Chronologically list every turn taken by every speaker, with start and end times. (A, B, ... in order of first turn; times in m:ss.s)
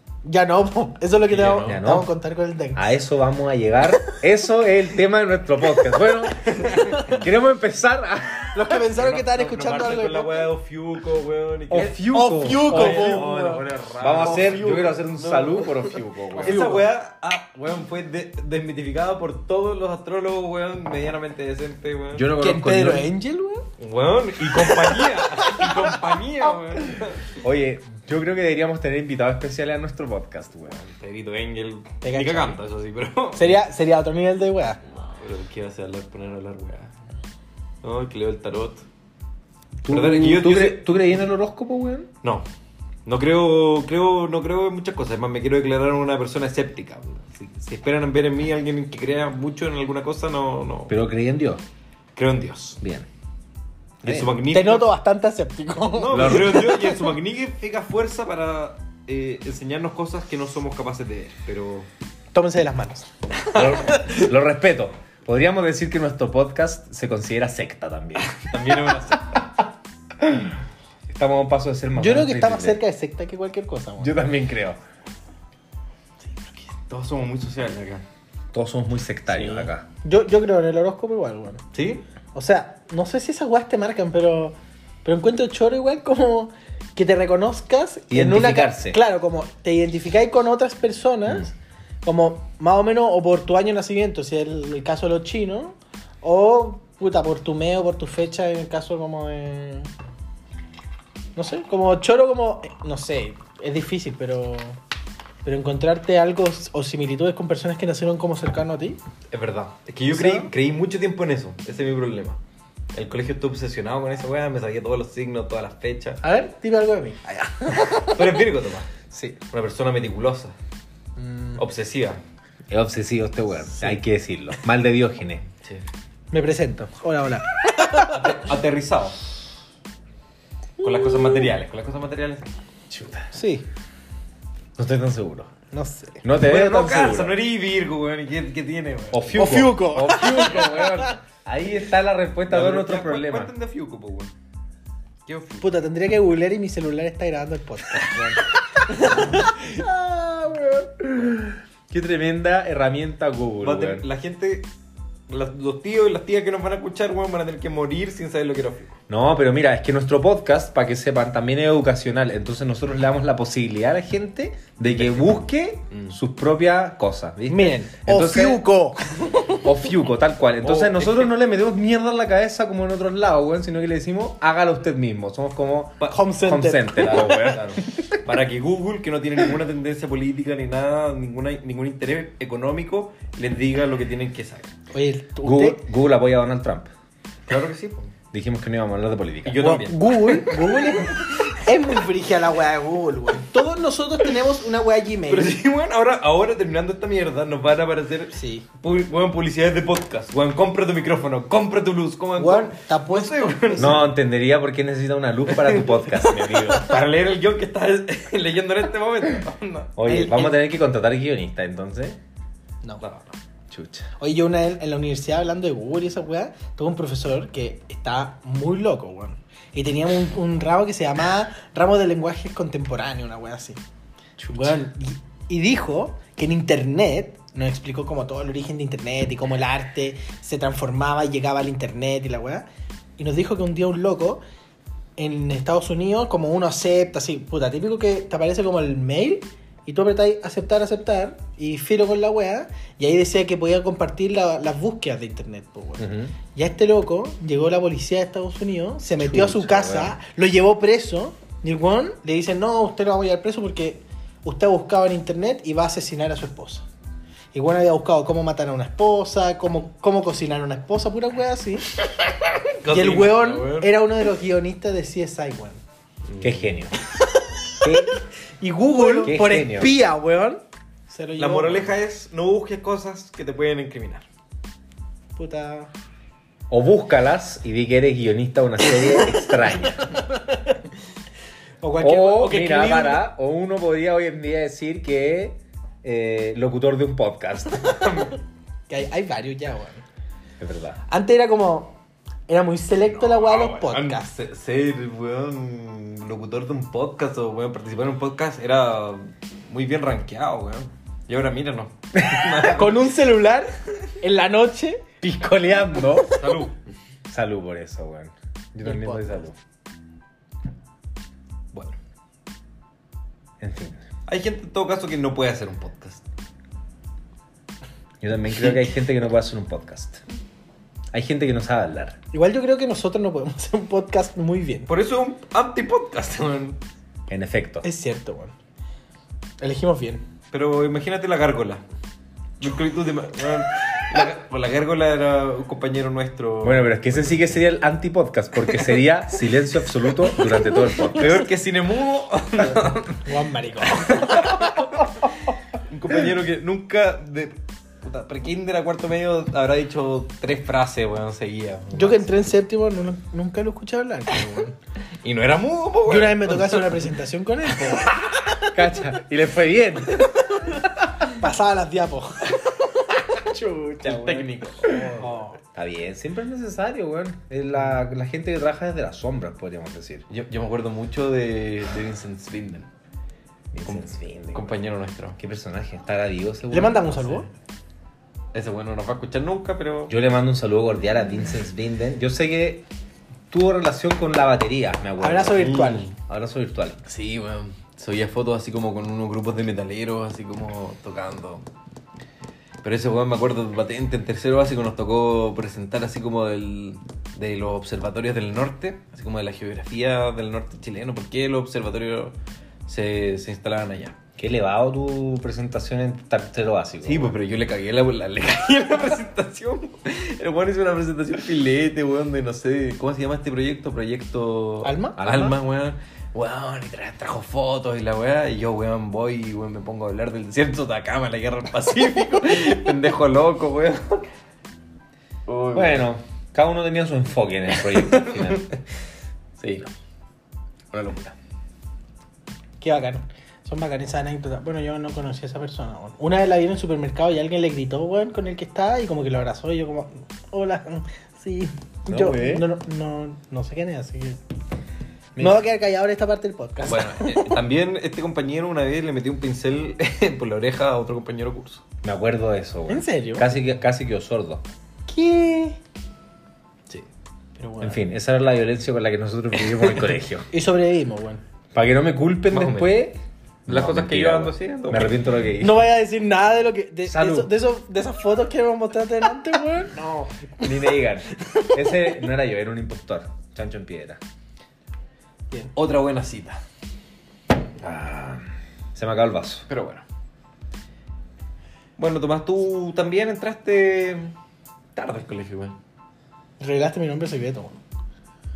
0:00.2-0:02.9 A
0:01.2-0:01.8 B
0:01.6-0:02.1 C
0:02.8-0:08.7 C
0:06.5-0:07.0 B
0:08.5-0:10.5 A
0:08.8-0:12.0 B
0:11.7-0:13.2 C
0:12.1-0:13.7 A
0:12.7-0:22.2 B
0:14.0-0:16.7 C
0:14.2-0:14.9 A
0:16.4-0:16.9 A
0:22.1-0:23.1 C
0:22.4-0:23.6 A
0:23.8-0:27.4 B
0:24.5-0:25.9 A
0:27.4-0:30.8 C
0:30.7-0:33.6 B
0:32.0-0:32.6 A
0:33.3-0:34.8 A
0:35.2-0:36.9 B
0:37.8-0:38.8 B
0:39.8-0:42.1 C
0:39.9-0:40.9 B
0:43.0-0:50.9 B
0:50.9-0:51.6 C
0:52.1-0:52.8 B
0:52.8-0:53.1 C
0:54.0-0:55.0 B
0:54.0-0:54.3 C
0:54.5-0:57.1 A
0:55.9-1:01.9 B
0:56.1-0:56.6 C
1:02.3-1:03.1 A
1:03.5-1:08.4 C
1:03.6-1:03.9 B
1:08.4-1:09.5 B
1:10.2-1:10.5 C
1:11.1-1:12.8 C
1:12.0-1:14.2 A
1:14.0-1:14.8 C
1:16.6-1:18.0 B
1:18.5-1:19.8 C
1:19.3-1:19.7 B
1:20.0-1:21.6 A
1:21.7-1:22.0 B
1:22.3-1:31.5 A
1:28.1-1:29.0 C
1:32.0-1:39.9 A
1:41.4-1:44.8 A
1:45.4-1:49.0 A
1:49.3-1:52.4 B
1:50.1-1:50.5 A
1:52.9-1:56.2 B
1:56.2-1:58.1 A
1:57.8-1:58.9 B
1:59.1-1:59.4 A
1:59.5-2:00.5 B
2:01.2-2:01.6 A
2:01.6-2:02.2 B
2:02.7-2:05.4 C
2:03.8-2:04.0 A
2:06.3-2:08.2 A
2:08.1-2:09.2 B
2:10.8-2:12.5 B
2:12.9-2:13.2 C
2:13.3-2:13.6 A
2:14.8-2:15.5 C
2:15.7-2:16.2 A
2:16.2-2:17.4 C
2:16.4-2:19.3 B
2:19.1-2:23.5 C
2:19.3-2:21.1 A
2:22.4-2:24.3 B
2:25.2-2:25.7 B
2:25.6-2:31.1 A
2:31.9-2:34.1 C
2:33.6-2:34.7 B
2:35.3-2:39.0 B
2:39.1-2:48.6 C
2:45.9-2:46.2 B
2:47.5-2:49.6 A
2:49.6-2:57.8 C
2:50.6-2:51.3 B
2:56.1-2:57.5 A
2:57.0-3:04.7 B
3:04.9-3:05.8 A
3:05.4-3:06.9 C
3:07.5-3:08.1 B
3:08.3-3:09.7 C
3:09.4-3:11.3 B
3:09.6-3:15.6 A
3:15.3-3:24.0 B
3:18.3-3:18.6 A
3:22.4-3:24.1 A
3:23.8-3:26.9 C
3:25.5-3:29.9 B
3:30.0-3:32.2 C
3:30.0-3:30.6 A
3:33.0-3:33.3 B
3:33.7-3:34.1 C
3:34.2-3:43.8 A
3:44.5-3:52.6 A
3:53.2-3:54.4 A
3:55.2-4:16.8 A
4:06.0-4:06.3 C
4:09.2-4:10.2 C
4:17.5-4:21.9 A
4:22.8-4:23.9 B
4:22.9-4:25.8 A
4:26.3-4:26.7 B
4:26.4-4:26.9 C
4:27.8-4:28.1 C
4:28.6-4:31.9 A
4:29.2-4:29.9 C
4:31.4-4:34.2 B
4:35.4-4:35.9 A
4:36.7-4:40.0 C
4:40.1-4:40.8 A
4:41.8-4:43.2 A
4:42.0-4:48.0 C
4:48.9-4:50.0 A
4:50.6-4:51.0 C
4:51.1-4:52.0 A
4:52.5-4:54.3 A
4:53.1-5:03.1 B
5:02.6-5:05.1 A
5:05.2-5:06.3 C
5:05.9-5:06.4 A
5:06.4-5:06.8 B
5:07.3-5:09.6 C
5:08.8-5:09.4 A
5:13.6-5:14.0 C
5:14.3-5:16.2 B
5:18.2-5:20.2 C
5:21.1-5:22.2 C
5:22.3-5:24.9 A
5:24.9-5:26.8 B
5:27.3-5:27.8 C
5:27.8-5:28.5 A
5:29.6-5:30.2 A
5:30.5-5:31.8 B
5:32.6-5:37.6 B
5:36.6-5:41.4 C
5:41.1-5:43.2 B
5:43.2-5:44.7 A
5:44.0-5:44.8 B
5:45.9-5:52.5 B
5:51.9-5:54.8 A
5:55.2-5:57.1 B
5:56.0-5:58.5 A
5:58.6-6:00.3 C
6:01.3-6:02.5 A
6:03.3-6:04.4 A
6:04.0-6:05.3 B
6:05.2-6:05.6 A
6:05.7-6:10.2 C
6:10.3-6:12.9 B
6:13.7-6:14.8 C
6:13.8-6:15.4 B
6:15.4-6:17.4 C
6:16.7-6:17.5 A
6:18.5-6:20.1 B
6:20.1-6:22.9 C
6:23.5-6:27.0 C
6:25.2-6:26.1 A
6:25.6-6:26.1 B
6:27.0-6:31.6 B
6:32.8-6:44.2 B
6:44.4-6:47.3 C
6:47.0-7:04.3 B
6:54.8-6:55.2 A
6:55.2-6:55.6 C
7:05.5-7:06.1 B
7:05.7-7:08.6 C
7:07.7-7:08.7 B
7:09.6-7:09.9 B
7:10.9-7:11.3 B
7:12.8-7:24.4 A
7:22.1-7:22.6 C
7:25.4-7:25.6 C
7:25.4-7:27.6 A
7:26.8-7:31.8 B
7:32.0-7:34.6 C
7:32.9-7:33.5 A
7:35.1-7:35.8 A
7:37.6-7:38.0 A
7:37.8-7:40.5 C
7:39.6-7:40.0 B
7:40.5-7:41.4 A
7:41.7-7:45.8 C
7:42.5-7:43.0 B
7:43.7-7:45.2 B
7:45.6-7:50.6 A
7:47.1-7:47.5 C
7:50.6-7:54.2 C
7:55.7-7:56.6 B
7:57.8-7:58.4 C
7:59.0-7:59.6 C
7:59.7-8:00.0 B
8:02.0-8:04.3 B
8:04.9-8:05.7 B
8:06.6-8:07.8 A